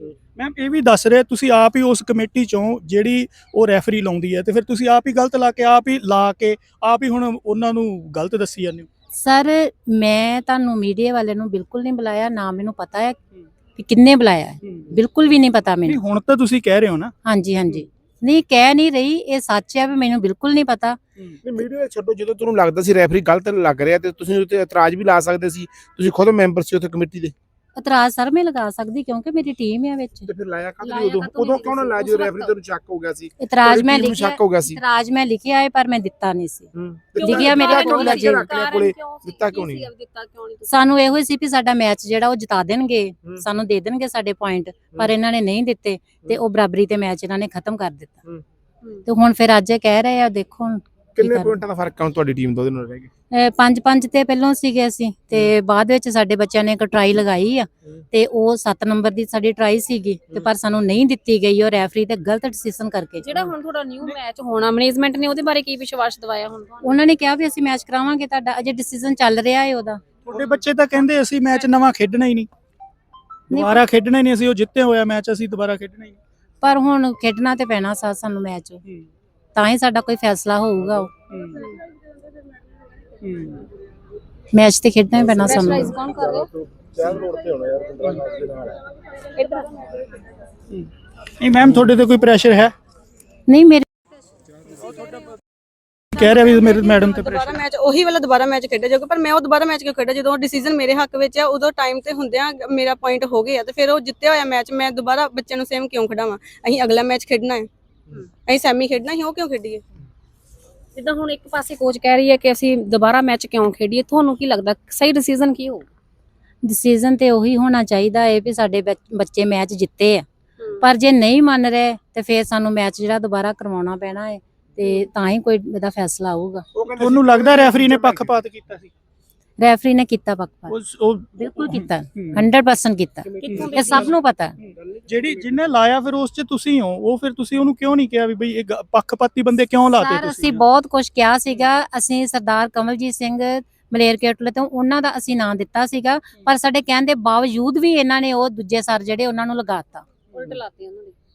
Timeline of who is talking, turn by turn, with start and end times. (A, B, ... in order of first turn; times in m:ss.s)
0:00.3-0:08.9 A
0:09.2-0:13.2 B
0:13.8-0:16.0 B
0:14.6-0:15.0 A
0:15.8-0:17.1 A
0:17.2-0:21.0 B
0:21.2-0:21.4 A
0:21.4-0:27.3 C
0:27.8-0:30.3 B
0:30.3-0:34.8 C
0:30.8-0:32.5 D
0:33.4-0:38.6 B
0:36.7-0:39.9 C
0:37.2-0:40.8 D
0:40.7-0:48.2 B
0:49.0-0:51.6 B
0:51.2-0:53.1 C
0:53.3-1:03.3 B
1:03.2-1:06.9 D
1:03.3-1:04.2 A
1:06.8-1:10.0 B
1:10.2-1:12.5 A
1:13.5-1:16.2 A
1:13.5-1:13.8 B
1:16.6-1:18.8 B
1:19.5-1:21.1 B
1:21.3-1:21.7 A
1:23.2-1:23.6 A
1:24.5-1:26.0 B
1:25.5-1:28.8 C
1:25.5-1:26.5 D
1:30.7-1:32.7 A
1:33.5-1:33.8 B
1:36.1-1:37.6 A
1:36.2-1:47.7 E
1:48.4-1:49.8 E
1:51.0-1:55.9 D
1:56.6-2:00.2 B
2:00.8-2:06.6 B
2:06.7-2:08.4 C
2:07.0-2:08.9 A
2:09.6-2:10.7 B
2:10.7-2:12.4 A
2:11.4-2:14.5 B
2:13.2-2:14.2 C
2:13.4-2:13.8 A
2:13.6-2:14.0 D
2:15.0-2:15.4 C
2:15.1-2:20.6 A
2:19.9-2:30.0 B
2:30.3-2:31.2 D